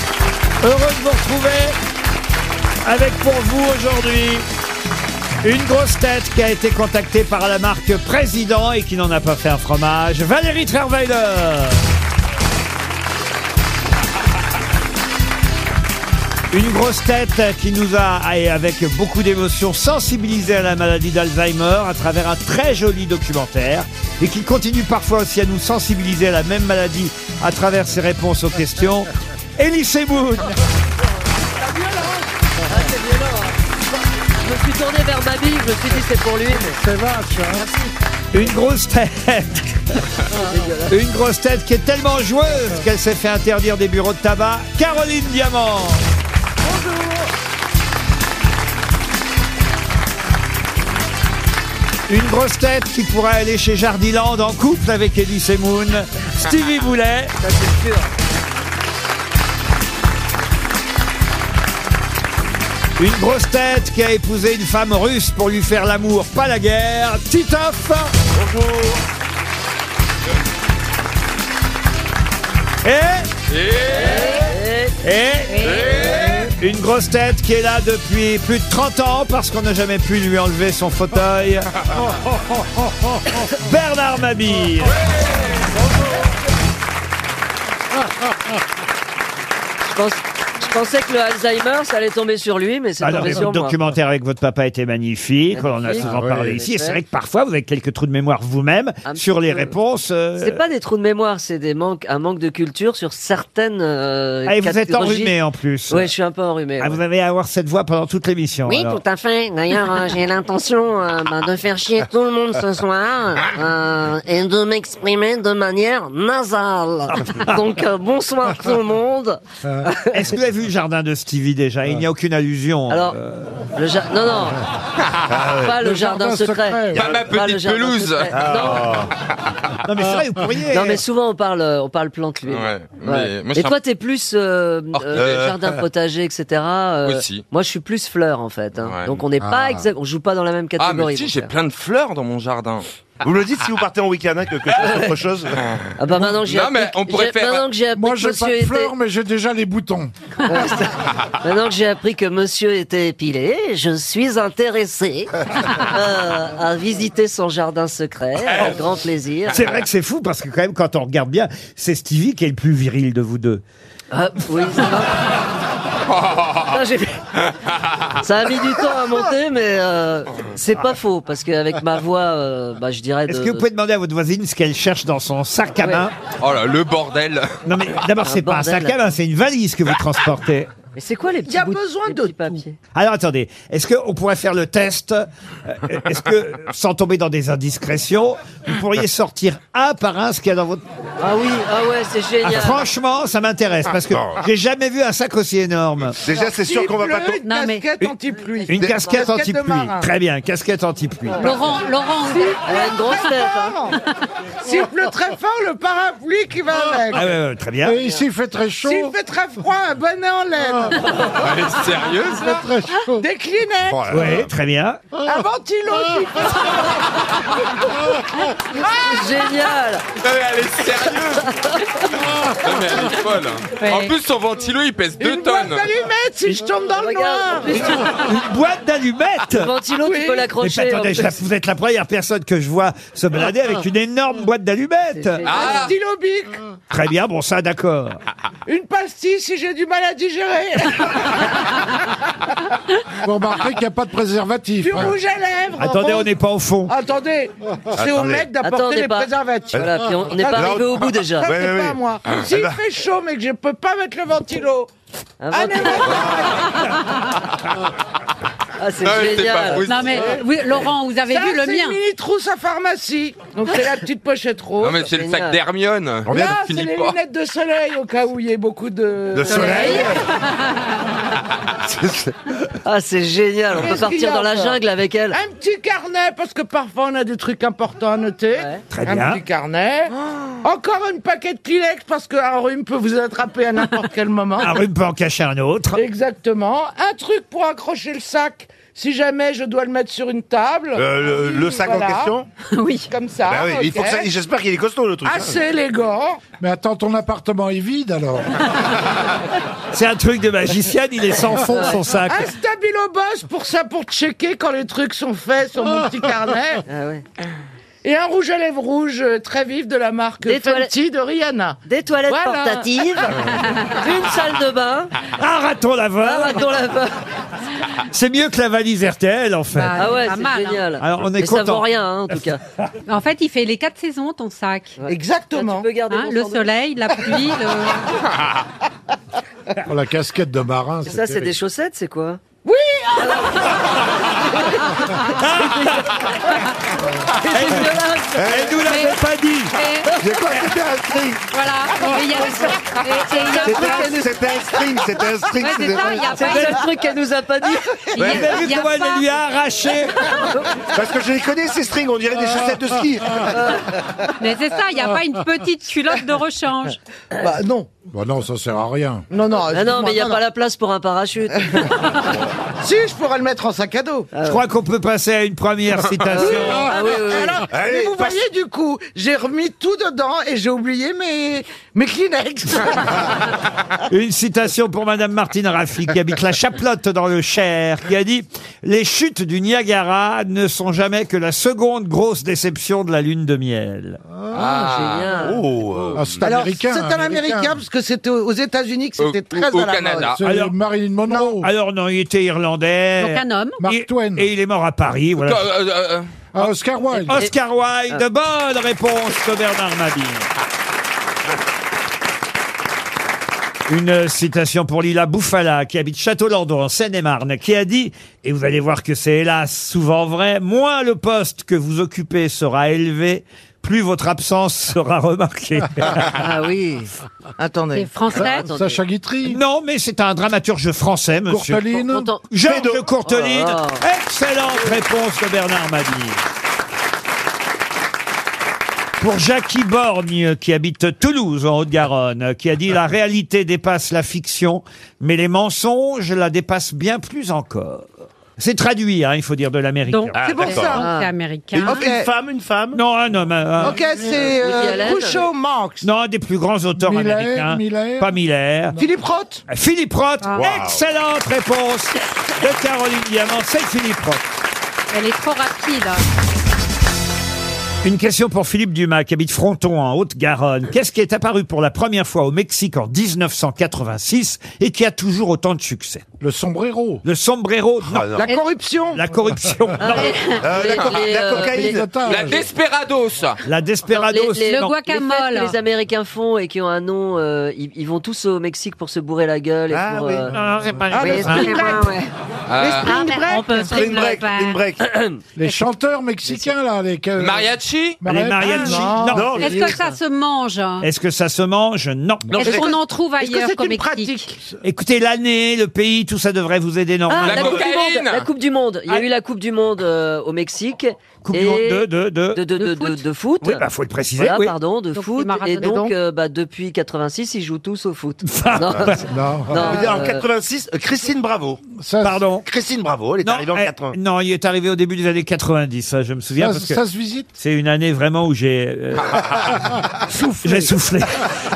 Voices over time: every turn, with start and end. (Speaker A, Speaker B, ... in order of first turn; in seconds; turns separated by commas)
Speaker A: 0.6-1.8, Speaker A: 2.8-4.5, Speaker A: 5.4-11.8, Speaker A: 16.5-30.5, Speaker B: 31.7-32.2, Speaker C: 32.7-33.6, Speaker C: 34.4-36.8, Speaker D: 36.5-37.7, Speaker A: 38.3-40.1, Speaker C: 40.3-41.0, Speaker A: 40.9-46.0, Speaker A: 52.1-57.4, Speaker C: 57.4-58.1, Speaker A: 63.0-68.1, Speaker E: 68.4-69.0, Speaker A: 72.8-73.3, Speaker F: 73.5-74.3, Speaker C: 74.0-75.0, Speaker A: 75.0-81.7, Speaker G: 75.5-76.1, Speaker F: 75.7-76.4, Speaker A: 83.5-85.0, Speaker C: 89.9-93.8, Speaker A: 93.0-100.6, Speaker C: 95.5-97.0, Speaker D: 96.0-96.5, Speaker C: 99.0-99.7, Speaker C: 100.4-105.4, Speaker A: 104.5-106.1, Speaker C: 105.9-107.0, Speaker A: 106.8-109.0, Speaker H: 108.7-119.4, Speaker A: 117.1-117.7, Speaker C: 119.8-120.1, Speaker A: 120.0-123.7, Speaker C: 122.9-123.2, Speaker C: 123.8-124.6, Speaker E: 125.3-125.8, Speaker C: 125.6-129.0, Speaker D: 125.8-127.1, Speaker F: 127.0-128.8, Speaker E: 127.0-127.2, Speaker E: 128.3-129.1, Speaker A: 129.8-131.0, Speaker C: 130.7-141.5, Speaker F: 132.5-133.8, Speaker F: 134.9-135.5, Speaker E: 135.2-135.8, Speaker F: 137.0-137.4, Speaker F: 138.8-139.2, Speaker D: 139.4-139.8, Speaker F: 140.8-142.9, Speaker E: 143.2-145.6, Speaker C: 144.8-145.1, Speaker F: 145.6-147.7, Speaker C: 146.0-148.9, Speaker D: 147.9-150.1, Speaker C: 150.4-159.6, Speaker A: 159.5-163.6, Speaker C: 164.1-165.3, Speaker C: 166.6-167.2, Speaker C: 168.2-173.6, Speaker A: 173.3-176.2, Speaker C: 175.8-176.1, Speaker F: 176.4-177.6, Speaker A: 177.6-180.7, Speaker C: 178.2-179.0, Speaker C: 181.0-182.8, Speaker B: 181.5-182.6, Speaker A: 182.9-190.8, Speaker C: 191.2-192.9, Speaker A: 192.4-196.2, Speaker E: 194.1-194.4, Speaker E: 196.2-197.4, Speaker B: 196.3-200.1, Speaker G: 197.4-197.9, Speaker A: 198.7-201.5, Speaker G: 201.4-202.6, Speaker B: 202.3-204.0, Speaker C: 202.7-203.8, Speaker B: 204.6-207.3, Speaker A: 207.1-208.0, Speaker D: 207.8-209.2, Speaker B: 208.8-211.1, Speaker F: 211.4-212.5, Speaker D: 212.3-213.2, Speaker B: 213.2-214.2, Speaker E: 213.9-214.4, Speaker A: 214.1-215.0, Speaker B: 215.2-217.2, Speaker B: 218.7-219.4, Speaker C: 218.8-220.1, Speaker F: 220.2-221.6, Speaker C: 221.5-221.8, Speaker F: 222.6-225.9, Speaker G: 223.8-224.2, Speaker B: 225.2-227.9, Speaker C: 227.0-228.3, Speaker A: 227.7-229.7, Speaker C: 229.5-231.4, Speaker B: 229.9-230.5, Speaker A: 230.6-235.4, Speaker C: 235.1-235.9, Speaker F: 235.4-235.9, Speaker B: 235.5-236.6, Speaker A: 236.9-238.2, Speaker B: 238.7-241.9, Speaker D: 243.2-245.1, Speaker B: 244.8-246.3, Speaker A: 245.8-246.9, Speaker B: 246.9-254.9, Speaker E: 248.0-248.5, Speaker C: 248.6-251.5, Speaker E: 249.8-252.8, Speaker C: 255.4-256.5, Speaker B: 255.5-256.9, Speaker C: 258.8-259.9, Speaker F: 259.0-260.4, Speaker G: 259.9-262.0, Speaker B: 261.3-265.1, Speaker F: 264.8-267.2, Speaker C: 265.1-265.6, Speaker E: 266.3-266.7, Speaker B: 266.3-270.2, Speaker E: 269.3-270.2, Speaker G: 269.5-270.9, Speaker C: 269.6-270.0, Speaker E: 271.9-272.3, Speaker C: 272.8-275.4, Speaker B: 273.8-274.8, Speaker B: 275.3-284.8, Speaker C: 278.5-278.8, Speaker A: 278.9-279.4, Speaker A: 284.6-286.0, Speaker B: 285.9-292.4, Speaker E: 290.9-292.5, Speaker G: 292.7-293.1, Speaker B: 293.1-294.3, Speaker E: 293.5-295.6, Speaker B: 295.2-296.4, Speaker D: 296.6-298.6, Speaker A: 299.9-302.5, Speaker C: 301.7-302.0, Speaker B: 302.2-306.8, Speaker C: 306.9-307.2, Speaker B: 308.0-313.3, Speaker C: 310.4-310.9, Speaker C: 311.9-315.1, Speaker A: 315.3-316.8, Speaker C: 316.2-317.2, Speaker A: 318.0-320.2, Speaker G: 319.7-320.9, Speaker C: 319.9-322.6, Speaker A: 321.0-322.4, Speaker G: 323.1-325.0, Speaker C: 325.0-326.8, Speaker B: 325.1-325.9, Speaker G: 326.1-328.1, Speaker D: 329.9-331.5, Speaker C: 331.1-332.4, Speaker B: 332.6-333.8, Speaker C: 333.2-333.7, Speaker C: 334.4-336.6, Speaker A: 335.3-336.4, Speaker C: 337.3-338.7, Speaker B: 337.4-337.7, Speaker A: 337.4-339.8, Speaker E: 338.4-338.9, Speaker G: 338.8-340.3, Speaker E: 340.2-341.5, Speaker G: 341.5-344.3, Speaker C: 343.3-344.3, Speaker E: 343.4-346.3, Speaker G: 345.6-346.9, Speaker C: 346.1-348.1, Speaker G: 348.2-349.3, Speaker A: 348.2-350.4, Speaker E: 348.2-348.5, Speaker E: 350.9-353.6, Speaker C: 353.5-353.9, Speaker G: 354.4-357.0, Speaker B: 357.4-357.9, Speaker D: 358.1-359.2, Speaker B: 359.3-360.4, Speaker C: 359.7-362.4, Speaker B: 362.8-364.3, Speaker C: 364.3-364.6, Speaker A: 364.4-366.9, Speaker C: 366.3-367.7, Speaker B: 366.4-373.3, Speaker E: 367.7-368.4, Speaker A: 374.1-384.2, Speaker D: 384.3-385.0, Speaker F: 384.5-385.4, Speaker C: 384.7-385.6, Speaker E: 385.4-386.6, Speaker D: 386.1-387.8, Speaker B: 386.4-390.4, Speaker F: 389.2-390.4, Speaker D: 390.3-391.7, Speaker A: 390.4-390.8, Speaker B: 391.3-391.6, Speaker A: 391.6-395.7, Speaker G: 393.2-393.8, Speaker D: 393.8-394.5, Speaker F: 395.4-396.3, Speaker D: 396.5-397.4, Speaker A: 397.2-400.5, Speaker A: 403.9-416.4, Speaker C: 416.3-417.1, Speaker B: 417.6-418.2, Speaker G: 417.9-418.7, Speaker C: 418.3-419.0, Speaker D: 418.5-419.6, Speaker A: 419.4-421.9, Speaker D: 421.5-422.3, Speaker C: 421.9-422.5, Speaker A: 422.5-426.4, Speaker E: 422.6-423.1, Speaker C: 423.2-424.0, Speaker A: 429.2-440.4, Speaker G: 440.1-442.1, Speaker E: 440.4-441.0, Speaker B: 440.4-441.1, Speaker C: 441.0-441.3, Speaker E: 441.7-443.0, Speaker B: 441.9-442.3, Speaker A: 442.9-444.0, Speaker B: 443.8-446.1, Speaker C: 444.3-445.5, Speaker A: 446.0-449.0, Speaker D: 447.0-448.4, Speaker B: 449.0-449.6, Speaker A: 449.7-454.5, Speaker E: 450.6-451.0, Speaker G: 455.1-456.4, Speaker A: 458.0-466.3, Speaker D: 466.4-467.2, Speaker A: 467.2-468.3, Speaker E: 468.1-468.5, Speaker B: 468.4-469.2, Speaker A: 469.1-470.4, Speaker C: 470.0-472.0, Speaker G: 470.1-470.8, Speaker E: 470.5-472.5, Speaker D: 471.6-472.7, Speaker F: 472.2-473.6, Speaker A: 473.6-474.8, Speaker C: 474.1-480.6, Speaker G: 474.6-475.8, Speaker E: 479.9-480.6, Speaker A: 480.5-482.0, Speaker B: 481.1-482.1, Speaker H: 481.1-482.3, Speaker F: 482.7-483.1, Speaker B: 482.8-483.9, Speaker G: 483.0-484.8, Speaker E: 483.8-485.0, Speaker C: 485.0-485.4, Speaker D: 485.6-489.2, Speaker G: 485.6-485.9, Speaker F: 487.4-488.2, Speaker A: 488.2-489.8, Speaker B: 488.6-489.6, Speaker E: 489.2-490.1, Speaker G: 489.5-491.1, Speaker A: 491.0-492.9, Speaker G: 492.6-494.5, Speaker B: 492.6-494.6, Speaker A: 494.8-497.9, Speaker C: 497.3-503.9, Speaker F: 497.4-498.5, Speaker A: 501.4-502.6, Speaker G: 502.8-503.2, Speaker A: 503.6-504.8, Speaker C: 504.4-510.4, Speaker G: 505.1-506.1, Speaker A: 508.4-509.4, Speaker D: 509.3-509.9, Speaker E: 509.8-511.8, Speaker D: 511.9-512.4, Speaker A: 512.2-512.7, Speaker E: 512.6-514.2, Speaker A: 513.4-517.0, Speaker D: 516.6-517.5, Speaker A: 517.6-519.4, Speaker F: 519.2-519.6, Speaker B: 520.3-520.9, Speaker A: 520.6-521.5